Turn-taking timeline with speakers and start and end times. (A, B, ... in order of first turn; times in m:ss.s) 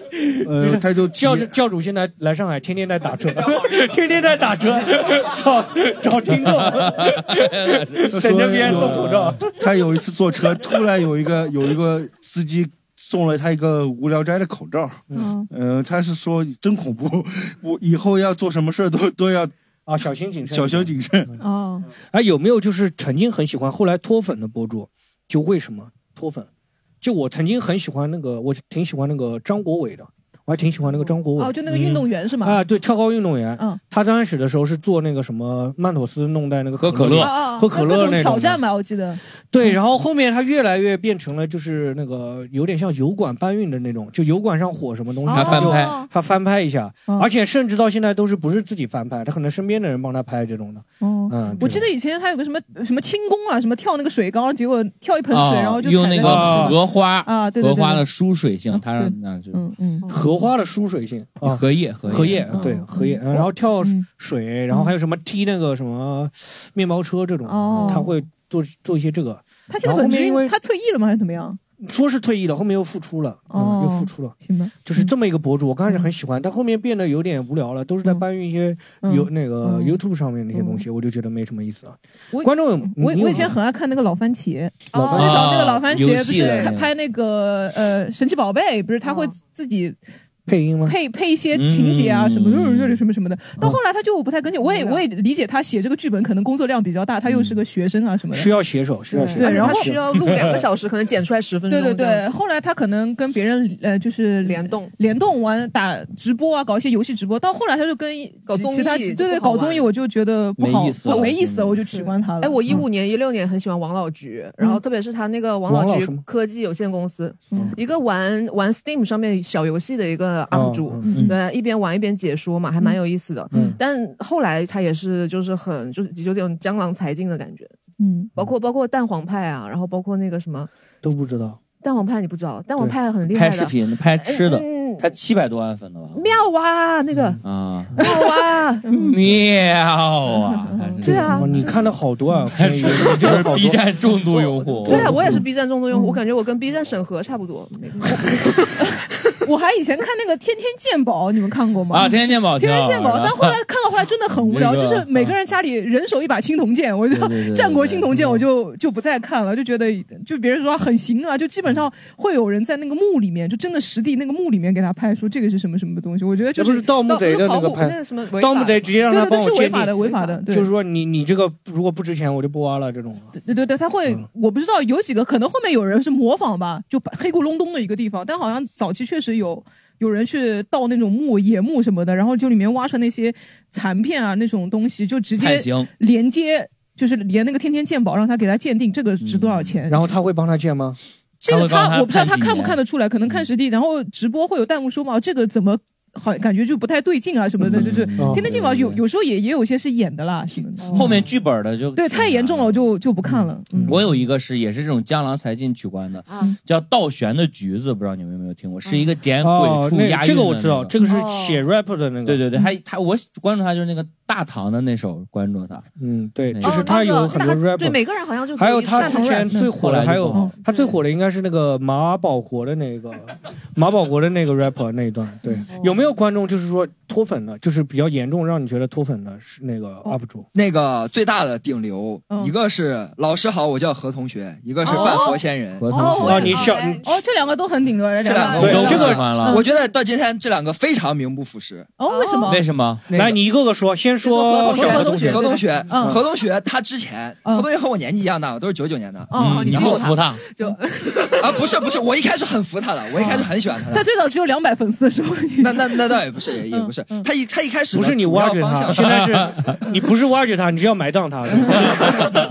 0:00.4-0:01.5 A
0:00.4-0:09.5 B
0:07.4-0:07.8 C
0:08.1-0:19.5 A
0:15.2-0:15.5 D
0:19.9-0:20.9 B
0:20.5-0:21.3 A
0:21.4-0:21.9 D
0:22.1-0:26.5 B
0:27.0-0:38.6 B
0:31.4-0:32.6 D
0:36.8-0:37.4 C
0:37.2-0:39.8 D
0:39.5-0:51.9 B
0:45.3-0:45.9 D
0:45.3-0:46.0 C
0:45.3-0:46.0 E
0:51.0-0:58.0 D
0:55.3-0:59.6 C
0:56.2-0:56.8 B
0:58.7-1:00.1 D
1:00.1-1:10.6 B
1:01.4-1:02.6 C
1:02.5-1:04.1 D
1:07.5-1:08.1 D
1:09.7-1:11.6 D
1:11.8-1:23.6 B
1:13.5-1:15.1 D
1:19.0-1:20.0 D
1:20.5-1:20.8 D
1:22.3-1:30.0 D
1:24.9-1:25.4 E
1:24.9-1:25.5 B
1:25.1-1:26.9 C
1:26.4-1:26.7 E
1:29.0-1:29.3 E
1:30.5-1:31.0 B
1:30.8-1:38.5 D
1:31.5-1:33.0 C
1:34.6-1:35.0 E
1:38.3-1:40.2 B
1:39.1-1:42.3 E
1:39.4-1:39.9 D
1:41.7-1:52.8 D
1:44.4-1:44.9 E
1:48.5-1:49.9 E
1:50.6-1:51.8 C
1:51.9-2:07.7 E
1:55.7-1:56.2 B
2:00.5-2:01.2 B
2:01.1-2:01.4 D
2:03.5-2:03.8 B
2:08.0-2:08.3 D
2:08.4-2:10.7 E
2:11.0-2:11.6 B
2:11.8-2:15.1 E
2:13.3-2:16.2 C
2:16.1-2:17.4 E
2:17.4-2:18.0 C
2:18.0-2:19.1 E
2:18.9-2:19.1 D
2:19.0-2:21.8 C
2:20.7-2:21.4 D
2:21.0-2:21.9 E
2:21.0-2:23.8 B
2:22.5-2:25.4 C
2:24.3-2:29.0 E
2:24.9-2:25.4 B
2:25.9-2:26.2 D
2:29.4-2:46.9 D
2:31.9-2:33.6 C
2:34.4-2:35.4 C
2:37.1-2:38.4 C
2:46.6-2:53.3 B
2:47.0-2:48.9 E
2:49.1-2:50.7 D
2:50.0-2:50.4 E
2:53.4-3:10.1 D
3:05.4-3:05.9 C
3:09.2-3:09.8 C
3:09.9-3:11.0 B
3:11.4-3:21.2 D
3:11.4-3:13.4 C
3:17.6-3:19.0 C
3:18.2-3:18.5 B
3:20.8-3:21.2 E
3:20.9-3:22.9 C
3:21.9-3:24.0 D
3:23.7-3:24.1 B
3:23.9-3:30.9 C
3:26.3-3:26.5 E
3:28.8-3:29.1 E
3:29.4-3:32.4 B
3:31.0-3:31.6 E
3:32.3-3:35.9 C
3:36.0-3:38.0 B
3:36.5-3:36.9 C
3:36.6-3:39.7 E
3:38.6-3:50.5 B
3:39.0-3:39.8 D
3:39.7-3:40.6 C
3:40.7-3:41.0 E
3:45.7-3:46.0 E
3:50.5-3:55.9 F
3:54.8-3:59.7 D
3:54.8-3:55.4 E
3:55.8-3:56.8 C
3:56.0-3:57.1 B
3:56.0-3:57.3 E
3:58.2-4:01.9 F
3:58.2-3:59.9 E
3:58.6-3:59.2 B
3:58.6-3:59.6 C
4:02.0-4:02.6 D
4:02.0-4:02.6 E
4:02.5-4:03.0 C
4:03.1-4:03.4 F
4:03.1-4:06.2 B
4:04.2-4:06.1 E
4:04.7-4:06.2 D
4:04.7-4:09.4 F
4:09.3-4:10.0 D
4:09.3-4:10.4 C
4:09.4-4:11.9 E
4:11.4-4:14.1 F
4:13.2-4:17.3 D
4:15.6-4:19.2 F
4:17.9-4:22.2 B
4:19.2-4:19.7 C